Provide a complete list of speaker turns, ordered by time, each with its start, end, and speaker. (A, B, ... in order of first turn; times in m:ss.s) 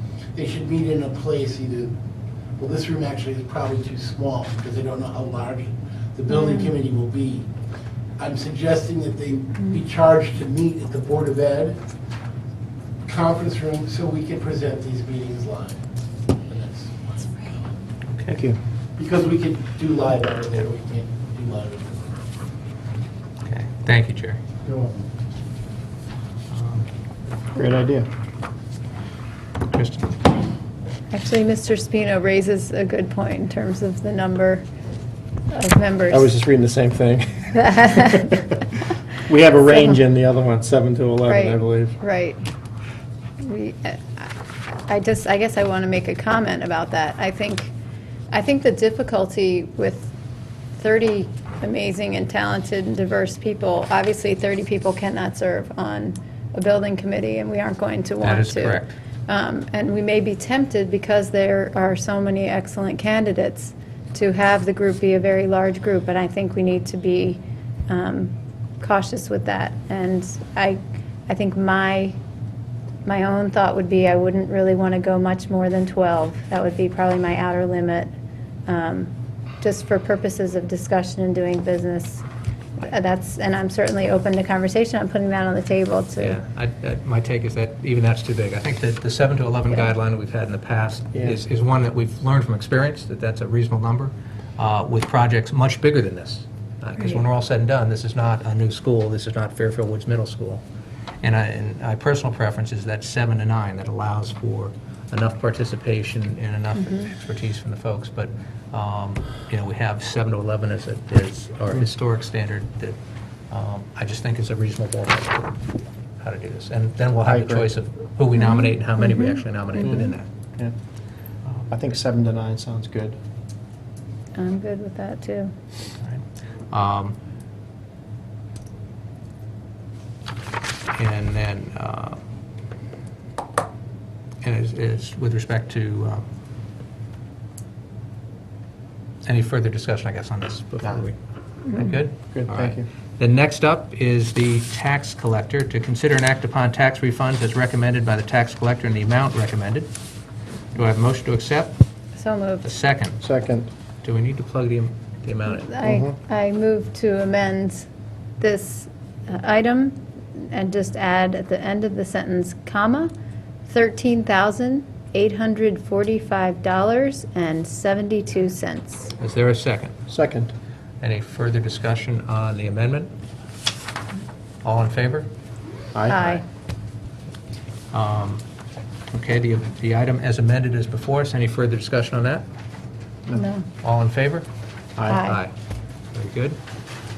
0:00.3-0:02.0 A
0:02.6-0:07.5 A
0:06.3-0:06.7 B
0:08.2-0:11.8 A
0:13.0-0:15.8 A
0:16.4-0:17.6 A
0:18.1-0:18.4 C
0:18.3-0:18.6 D
0:19.0-0:22.2 A
0:23.4-0:24.4 C
0:24.6-0:25.0 A
0:26.5-0:26.9 C
0:27.5-0:28.1 D
0:29.7-0:30.2 C
0:31.1-0:34.7 B
0:35.5-0:36.3 B
0:36.1-0:38.5 D
0:37.6-0:38.4 B
0:39.2-0:42.0 D
0:41.3-0:42.4 B
0:43.4-0:47.7 B
0:48.3-0:50.1 B
0:50.8-1:12.2 B
0:58.2-0:59.0 C
1:13.0-1:18.1 B
1:18.7-1:22.2 B
1:22.8-1:26.4 B
1:26.2-1:40.6 C
1:41.2-1:53.0 C
1:46.8-1:47.1 B
1:53.5-1:55.6 C
1:56.2-2:00.3 C
1:57.2-1:57.7 D
1:58.4-2:00.0 B
1:59.8-2:00.7 D
2:01.7-2:03.2 D
2:04.3-2:05.5 B
2:06.0-2:07.2 C
2:10.9-2:12.2 C
2:14.4-2:16.2 C
2:19.2-2:21.2 C
2:21.7-2:29.9 C
2:22.0-2:22.9 D
2:30.7-2:31.8 C
2:32.2-2:32.7 B
2:32.6-2:33.2 C
2:33.2-2:33.7 D
2:34.0-2:35.8 C
2:35.5-2:37.9 B
2:35.8-2:36.2 D
2:38.4-2:43.1 B
2:43.7-2:49.1 B
2:49.2-2:50.0 C
2:50.1-2:50.5 D
2:51.0-2:53.1 C
2:54.6-2:55.3 C
2:56.1-2:56.4 B
2:56.1-2:56.4 C
2:57.9-2:58.4 C
2:59.1-3:02.4 C
3:03.3-3:03.7 B
3:03.8-3:04.5 C
3:05.0-3:05.2 D
3:05.1-3:05.4 B
3:05.1-3:05.5 C
3:06.1-3:06.6 C